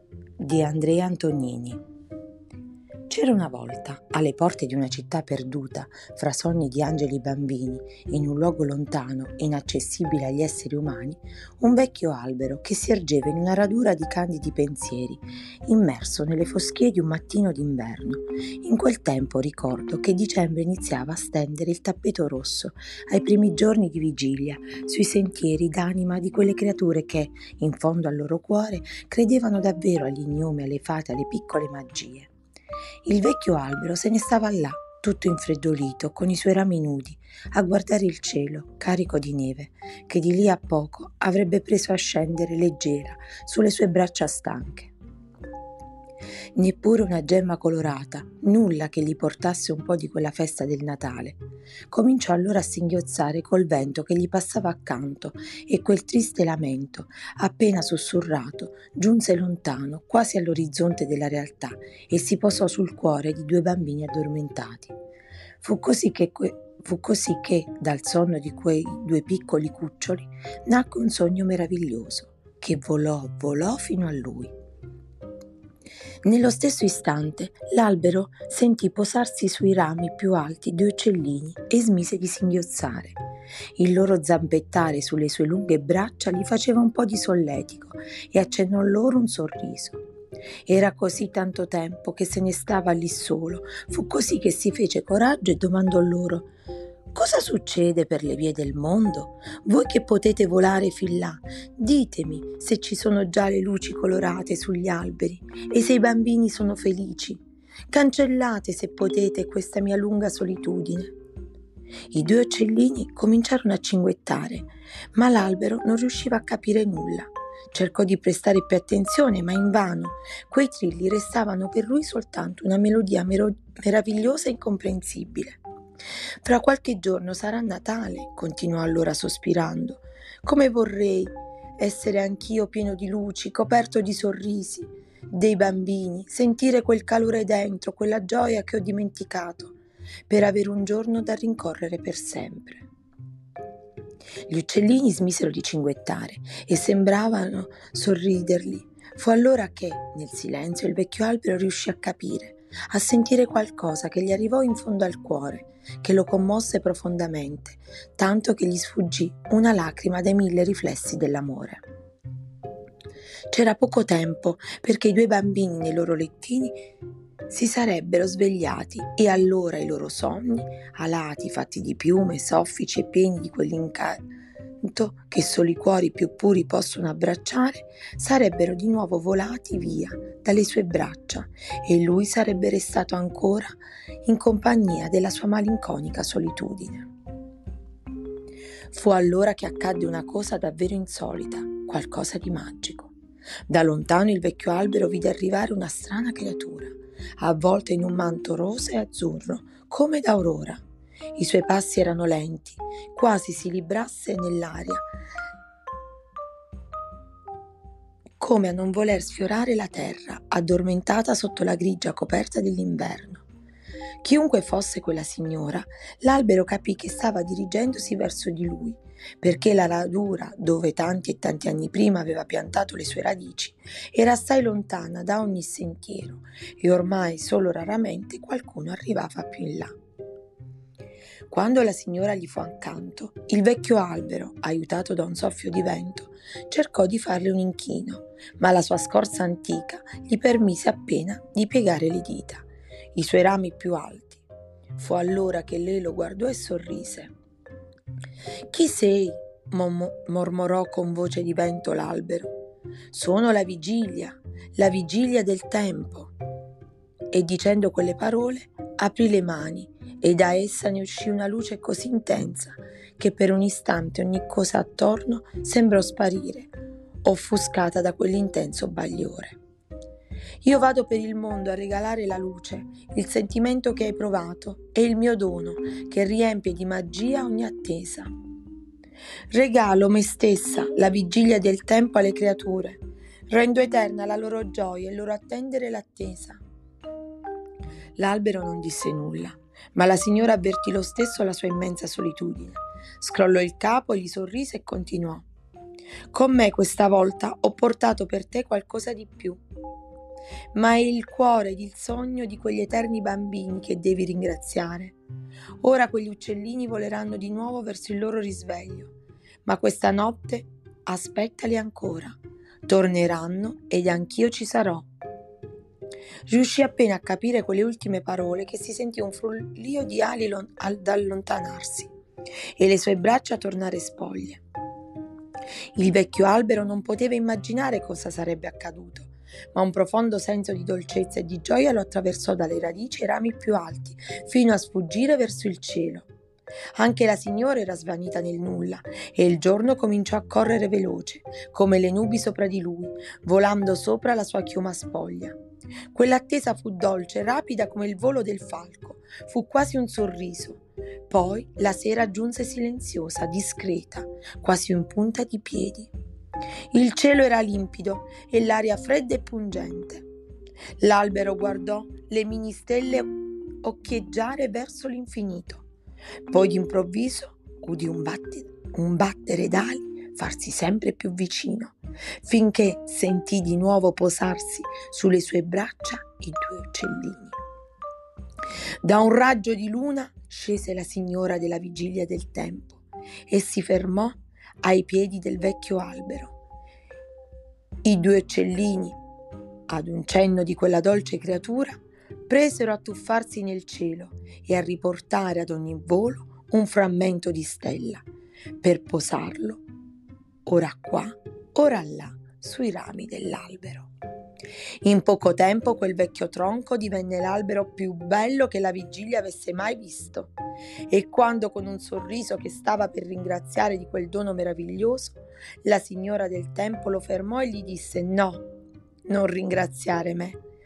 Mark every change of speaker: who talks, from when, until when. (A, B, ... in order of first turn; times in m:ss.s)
0:00.4-0:01.8 A
0:03.1-0:32.3 A
0:33.0-0:44.9 A
0:46.6-0:51.4 A
0:51.9-1:04.9 A
1:05.6-1:14.5 A
1:16.2-1:23.2 A
1:23.8-1:30.0 A
1:30.7-1:36.5 A
1:37.1-1:51.1 A
1:52.1-2:05.6 A
2:06.4-2:19.7 A
2:20.3-2:22.8 A
2:24.5-2:41.8 A
2:43.5-2:46.8 A
2:47.5-2:54.2 A
2:54.8-3:07.1 A
3:08.9-3:13.1 A
3:13.7-3:20.8 A
3:21.4-3:25.0 A
3:28.4-3:33.4 A
3:34.2-3:49.9 A
3:51.5-4:04.4 A
4:04.9-4:07.3 A
4:08.7-4:12.5 A
4:13.1-4:16.3 A
4:17.3-4:26.7 A
4:27.2-4:29.6 A
4:30.6-4:38.3 A
4:39.5-4:46.6 A
4:48.2-4:55.5 A
4:56.3-4:59.6 A
5:00.7-5:05.1 A
5:05.8-5:09.1 A
5:09.6-5:12.3 A
5:12.9-5:15.1 A
5:16.5-5:22.1 A
5:22.8-5:24.6 A
5:26.0-5:36.3 A
5:37.0-5:45.6 A
5:46.1-5:56.1 A
5:56.9-6:00.2 A
6:01.0-6:03.3 A
6:03.8-6:05.8 A
6:06.5-6:17.6 A
6:19.0-6:26.5 A
6:28.0-6:29.2 A
6:29.9-6:38.2 A
6:38.8-6:39.8 A
6:40.6-6:44.1 A
6:45.0-6:50.5 A
6:51.1-6:58.6 A
6:59.3-7:00.6 A